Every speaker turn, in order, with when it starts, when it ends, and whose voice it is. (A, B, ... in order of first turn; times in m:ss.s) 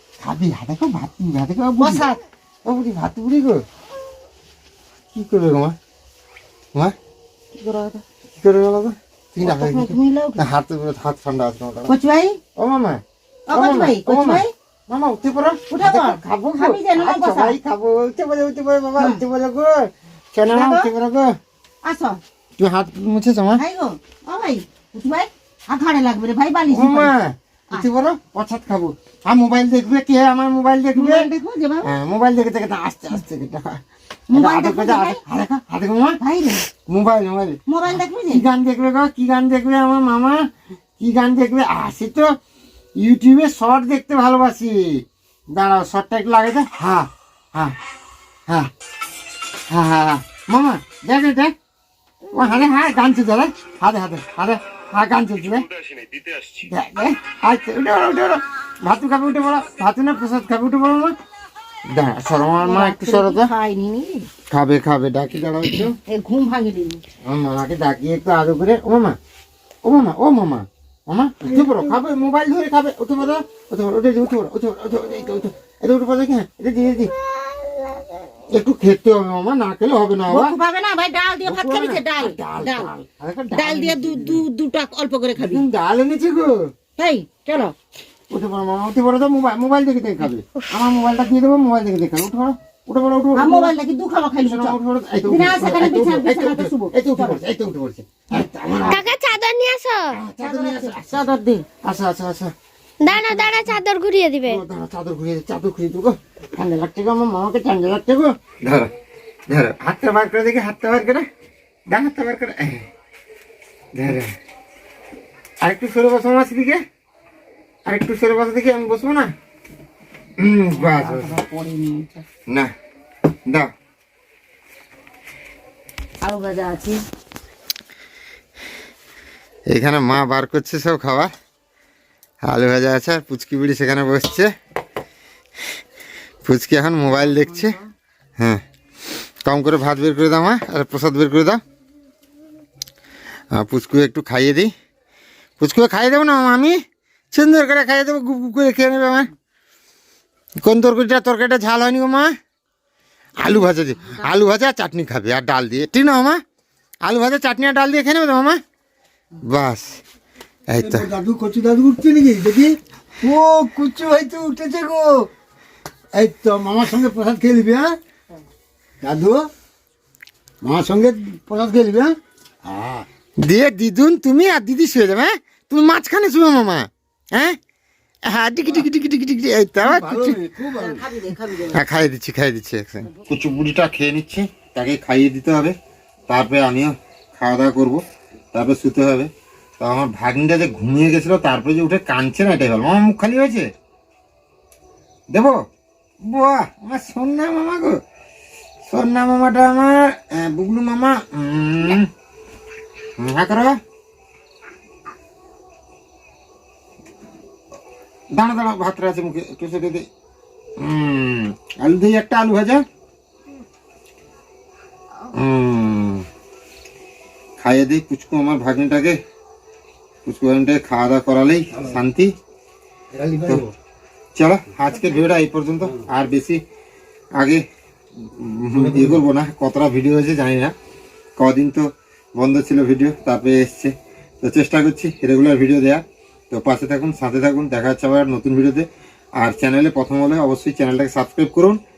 0:00.2-0:03.6 A
0:01.8-0:02.2 B
0:05.1-0:05.8 A
0:07.5-0:08.0 B
0:08.4-0:11.9 A
0:09.4-0:10.5 B
0:11.9-0:12.4 B
0:12.6-0:21.4 A
0:13.5-0:14.5 B
0:15.7-0:17.6 B
0:19.0-0:19.2 B
0:20.5-0:20.9 B
0:21.8-0:22.2 B
0:22.6-0:23.6 A
0:23.6-0:27.1 B
0:26.7-0:31.3 A
0:30.9-0:31.9 B
0:31.8-0:33.8 A
0:34.3-0:35.2 B
0:34.3-0:36.2 A
0:36.2-0:36.7 B
0:36.8-0:40.4 A
0:37.7-0:38.4 B
0:41.0-0:42.3 A
0:43.0-0:47.7 A
0:49.7-0:51.5 A
0:52.3-0:55.7 A
0:56.6-1:01.2 A
1:01.9-1:03.5 A
1:02.6-1:04.3 B
1:04.5-1:06.0 A
1:06.0-1:07.0 B
1:07.2-1:09.2 A
1:09.8-1:17.1 A
1:11.4-1:12.0 B
1:18.5-1:20.6 A
1:20.3-1:22.9 B
1:21.4-1:24.4 A
1:23.5-1:25.6 B
1:25.4-1:26.7 A
1:27.0-1:27.7 B
1:28.3-1:33.7 A
1:33.3-1:37.4 B
1:34.4-1:39.0 A
1:38.9-1:40.1 C
1:40.1-1:41.2 A
1:40.4-1:41.6 B
1:41.8-1:42.5 A
1:43.0-1:44.6 C
1:43.1-1:43.7 A
1:44.4-1:48.9 A
1:49.5-1:51.2 A
1:51.9-1:52.9 A
1:53.9-1:54.3 A
1:55.6-1:56.8 A
1:57.9-1:59.3 A
2:00.4-2:01.4 A
2:00.7-2:02.2 B
2:06.2-2:07.0 B
2:09.7-2:11.3 A
2:12.5-2:14.5 A
2:16.4-2:17.8 A
2:17.2-2:17.8 B
2:19.4-2:21.6 A
2:23.5-2:24.7 A
2:25.6-2:26.8 A
2:27.3-2:29.3 A
2:30.6-2:32.3 A
2:33.4-2:36.4 A
2:37.0-2:38.6 A
2:39.4-2:40.0 A
2:40.7-2:41.1 A
2:40.8-2:45.3 D
2:46.1-2:48.0 D
2:49.0-2:49.5 D
2:50.6-2:53.0 D
2:53.4-2:57.6 A
2:58.3-3:00.4 A
2:59.8-3:01.1 D
3:00.8-3:01.9 B
3:01.7-3:05.7 A
3:06.3-3:08.0 A
3:08.5-3:13.7 A
3:16.2-3:18.0 A
3:18.9-3:22.1 A
3:23.2-3:23.8 A
3:28.3-3:30.0 A
3:30.8-3:32.8 A
3:35.3-3:36.2 A
3:37.6-3:39.2 A
3:40.2-3:42.3 A
3:43.1-3:43.7 D
3:44.3-3:46.6 A
3:47.4-3:47.6 A
3:48.2-3:50.7 A
3:48.8-3:49.2 D
3:51.4-3:58.9 A
3:59.4-4:01.8 A